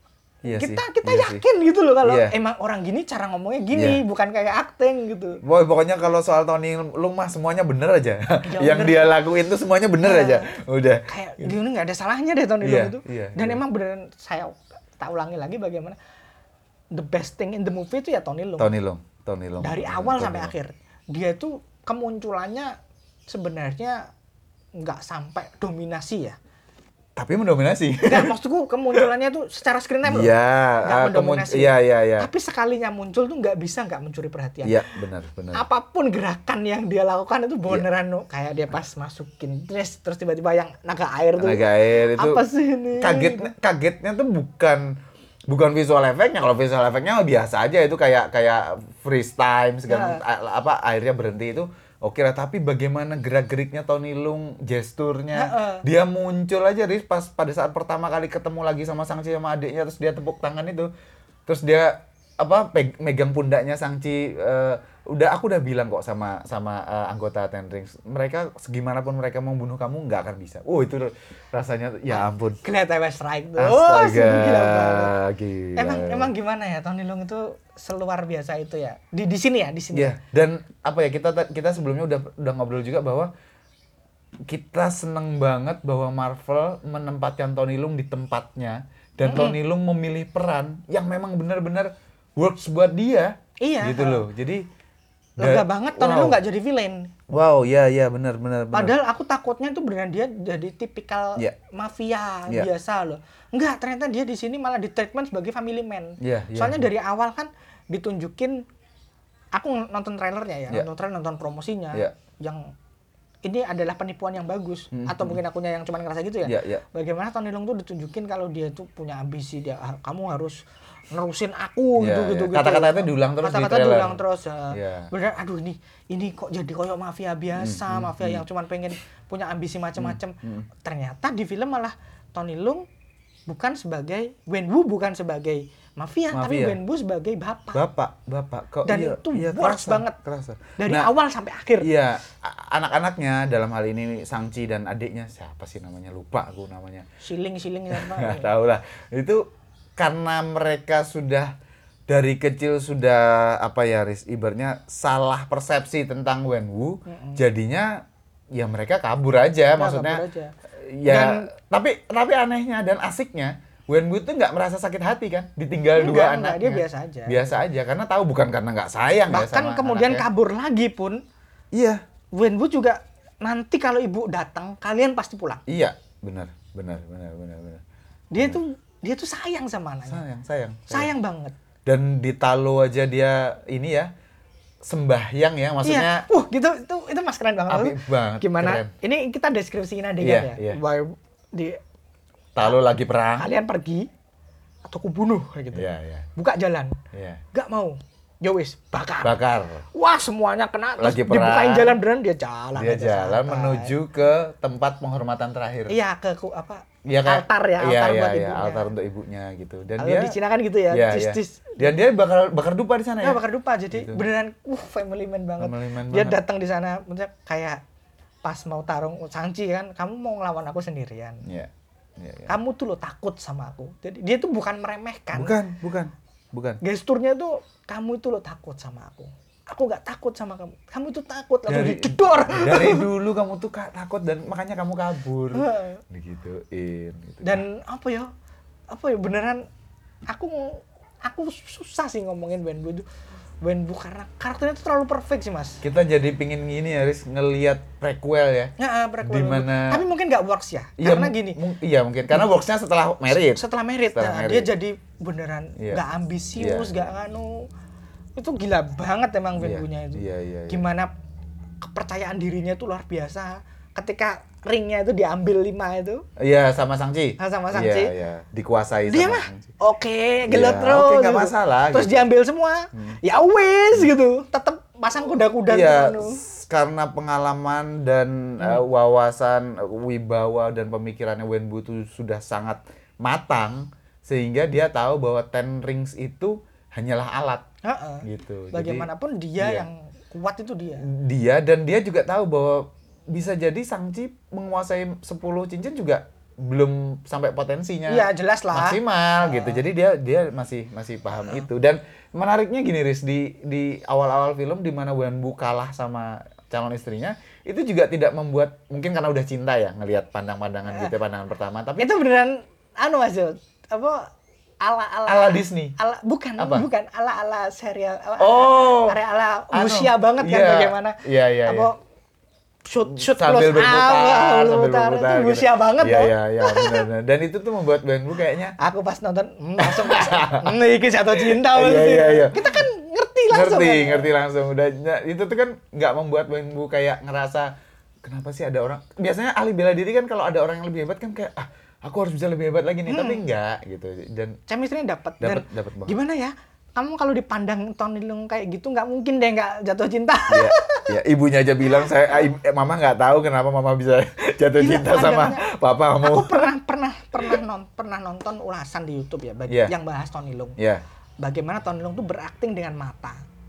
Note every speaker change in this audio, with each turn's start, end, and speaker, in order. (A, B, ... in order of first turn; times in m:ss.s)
0:00.4-0:01.4 A
0:00.5-0:05.4 B
0:02.0-0:02.4 A
0:03.7-0:04.0 A
0:05.4-0:11.5 A
0:08.4-0:09.2 B
0:10.0-0:10.5 B
0:11.1-0:16.0 B
0:12.6-0:13.6 A
0:16.9-0:18.7 B
0:18.6-0:20.5 A
0:19.6-0:22.7 B
0:23.3-0:24.0 B
0:24.8-0:26.4 B
0:27.2-0:28.3 A
0:28.0-0:34.8 B
0:30.0-0:32.3 A
0:34.6-0:35.6 A
0:35.5-0:43.5 B
0:41.4-0:42.4 A
0:43.0-0:45.0 A
0:45.5-1:00.9 A
0:49.9-0:50.2 B
0:55.4-0:55.8 B
1:01.5-1:12.6 A
1:12.1-1:15.1 B
1:13.6-1:16.3 A
1:15.8-1:20.1 B
1:19.9-1:23.3 A
1:24.5-1:34.6 A
1:29.2-1:29.6 B
1:33.6-1:34.2 B
1:35.4-1:36.4 A
1:35.4-1:37.1 B
1:37.3-1:39.0 A
1:38.7-1:48.7 B
1:46.2-1:46.9 A
1:49.5-1:52.7 B
1:53.4-2:12.8 B
1:54.9-1:55.4 A
1:56.4-1:56.8 A
2:02.0-2:05.1 A
2:07.6-2:08.4 A
2:10.0-2:10.7 A
2:13.5-2:17.8 B
2:16.3-2:16.8 A
2:17.7-2:21.1 A
2:18.8-2:20.2 B
2:20.8-2:21.9 B
2:21.8-2:27.1 A
2:27.2-2:28.5 B
2:27.9-2:29.4 A
2:30.0-2:31.5 A
2:32.1-2:40.2 A
2:37.1-2:37.4 B
2:39.8-2:40.5 B
2:40.7-2:50.3 A
2:41.1-2:41.5 B
2:45.9-2:47.6 B
2:49.3-2:51.2 B
2:51.7-2:52.0 A
2:52.3-2:55.6 B
2:55.7-2:57.8 A
2:58.3-3:00.2 B
3:00.1-3:01.1 A
3:00.9-3:01.6 B
3:01.9-3:04.1 A
3:04.9-3:06.3 A
3:05.8-3:11.8 B
3:07.7-3:08.9 A
3:10.2-3:10.8 A
3:12.6-3:13.5 A
3:13.4-3:14.1 B
3:14.8-3:17.0 B
3:15.7-3:16.3 A
3:17.1-3:17.4 A
3:17.5-3:19.4 B
3:19.2-3:19.9 A
3:19.9-3:23.9 B
3:21.0-3:22.0 A
3:22.8-3:26.0 A
3:25.9-3:28.9 B
3:27.0-3:30.4 A
3:30.0-3:32.0 B
3:30.9-3:33.4 A
3:33.2-3:37.8 B
3:33.9-3:34.2 A
3:35.6-3:36.4 A
3:38.4-3:41.4 B
3:41.4-3:42.5 A
3:42.5-3:45.6 B
3:45.3-3:46.8 A
3:46.8-3:53.1 B
3:51.7-3:57.6 A
3:55.5-3:56.0 B
3:57.4-3:58.3 B
3:58.9-3:59.6 B
4:00.3-4:03.1 B
4:03.6-4:05.8 B
4:05.8-4:08.7 A
4:08.8-4:11.6 B
4:09.2-4:10.0 A
4:11.0-4:13.6 A
4:13.3-4:17.7 B
4:14.1-4:14.7 A
4:16.6-4:17.0 A
4:18.4-4:21.1 B
4:19.6-4:20.8 A
4:21.8-4:26.2 B
4:26.4-4:29.7 A
4:27.4-4:28.1 B
4:29.1-4:36.4 B
4:30.5-4:32.2 A
4:35.7-4:47.7 A
4:47.8-4:51.1 B
4:48.2-4:49.1 A
4:49.6-4:49.9 A
4:51.0-5:12.1 A
4:58.1-4:59.8 B
5:12.0-5:14.3 B
5:14.8-5:21.9 B
5:15.3-5:16.0 A
5:16.6-5:16.9 A
5:18.4-5:19.2 A
5:19.7-5:21.9 A
5:22.8-5:27.1 B
5:23.1-5:28.8 A
5:28.8-5:34.3 B
5:29.8-5:30.7 A
5:31.3-5:32.8 A
5:33.5-5:37.7 A
5:38.2-5:44.6 A
5:43.1-5:43.4 B
5:44.7-5:51.1 B
5:45.4-5:46.1 A
5:50.5-5:56.7 A
5:54.8-5:55.6 B
5:56.2-6:00.8 B
6:00.8-6:01.0 A
6:01.4-6:03.4 B